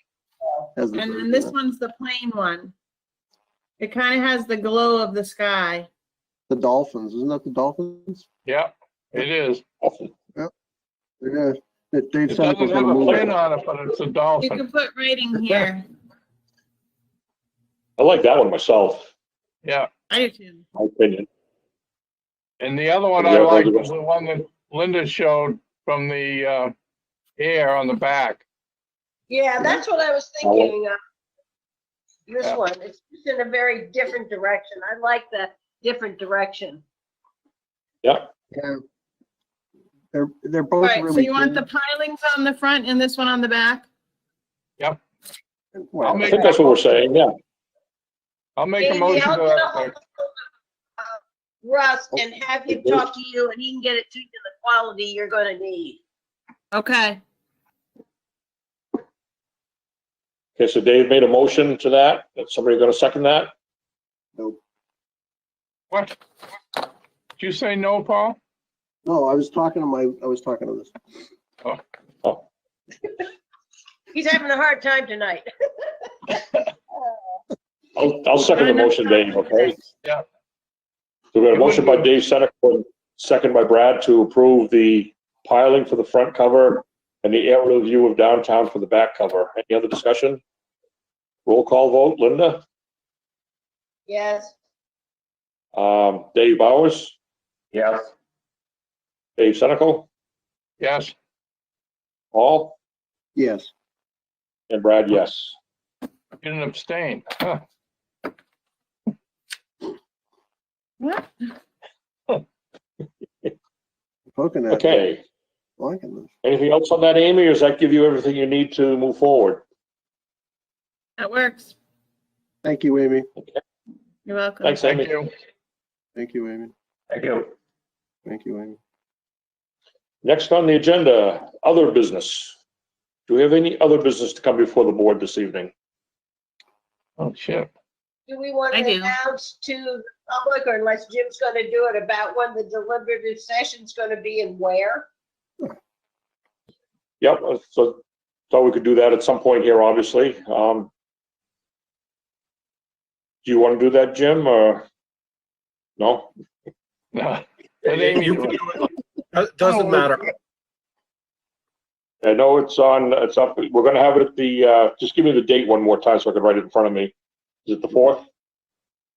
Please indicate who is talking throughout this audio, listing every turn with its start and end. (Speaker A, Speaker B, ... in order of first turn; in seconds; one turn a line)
Speaker A: 0.4-0.7
Speaker B: 0.8-1.5
Speaker C: 0.9-2.7
Speaker C: 3.8-5.9
Speaker B: 6.5-8.2
Speaker D: 8.4-9.6
Speaker E: 9.8-10.1
Speaker B: 11.2-13.3
Speaker D: 12.3-14.6
Speaker C: 14.4-15.9
Speaker E: 18.0-19.1
Speaker C: 20.1-20.6
Speaker E: 20.7-21.3
Speaker D: 22.6-26.7
Speaker E: 23.2-23.9
Speaker D: 27.4-28.4
Speaker A: 29.3-31.0
Speaker E: 30.4-30.7
Speaker A: 32.3-36.8
Speaker E: 38.0-38.3
Speaker B: 38.5-38.8
Speaker B: 40.1-41.6
Speaker C: 40.8-43.9
Speaker B: 45.7-46.5
Speaker D: 46.0-46.9
Speaker E: 46.2-47.3
Speaker D: 48.6-49.9
Speaker A: 48.8-50.4
Speaker A: 51.0-56.0
Speaker E: 52.7-53.0
Speaker C: 56.7-57.2
Speaker E: 60.6-63.5
Speaker D: 65.9-66.2
Speaker D: 67.4-68.4
Speaker B: 69.0-70.9
Speaker A: 74.1-76.3
Speaker E: 78.0-79.8
Speaker C: 78.5-79.8
Speaker E: 81.3-90.4
Speaker D: 81.5-82.0
Speaker E: 91.5-92.6
Speaker A: 94.1-94.5
Speaker E: 95.7-97.2
Speaker E: 97.7-98.0
Speaker E: 99.4-100.1
Speaker D: 100.8-101.1
Speaker E: 102.3-102.8
Speaker B: 103.4-103.7
Speaker E: 104.7-105.5
Speaker D: 106.4-107.6
Speaker C: 111.0-111.5
Speaker B: 114.3-115.0
Speaker E: 114.7-115.2
Speaker B: 115.8-116.3
Speaker E: 116.4-119.6
Speaker C: 121.2-121.7
Speaker B: 122.6-123.3
Speaker C: 124.3-124.9
Speaker E: 124.6-125.2
Speaker D: 124.8-125.3
Speaker B: 126.2-126.7
Speaker E: 127.1-127.4
Speaker B: 128.2-128.8
Speaker E: 130.2-132.6
Speaker E: 133.3-135.7
Speaker D: 137.2-137.7
Speaker A: 138.3-145.1
Speaker C: 138.7-139.1
Speaker E: 147.2-150.9
Speaker E: 153.4-154.9
Speaker E: 156.0-156.3
Speaker D: 157.1-158.6
Speaker F: 157.9-160.3
Speaker E: 162.2-167.1
Speaker E: 167.7-168.2